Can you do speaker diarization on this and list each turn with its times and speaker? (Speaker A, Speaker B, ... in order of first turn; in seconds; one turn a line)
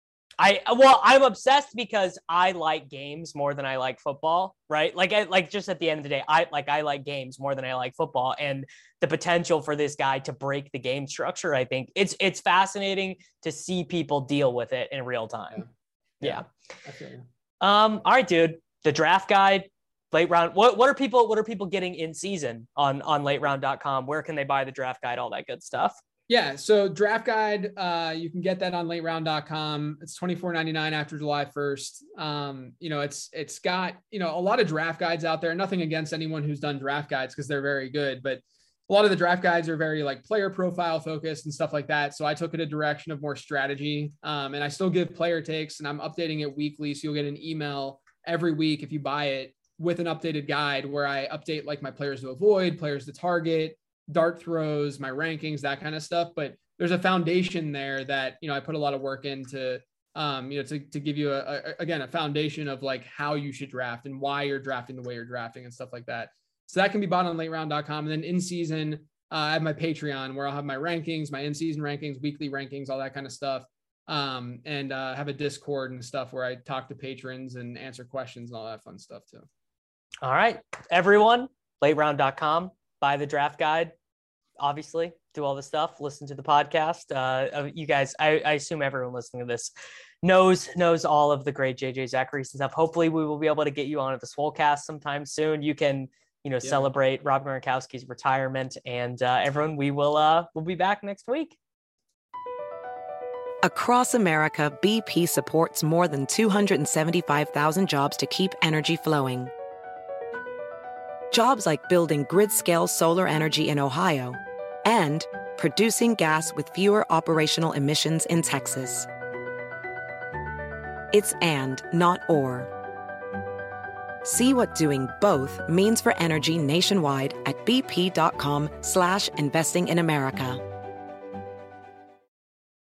Speaker A: 0.4-15.6
Speaker A: 16.2-16.5
Speaker B: 16.2-17.2
Speaker A: 17.6-26.0
Speaker B: 26.3-79.5
Speaker A: 80.2-83.9
Speaker A: 84.6-89.7
Speaker A: 90.2-101.6
Speaker C: 103.6-109.5
Speaker C: 111.3-119.1
Speaker C: 121.1-122.7
Speaker C: 124.2-130.6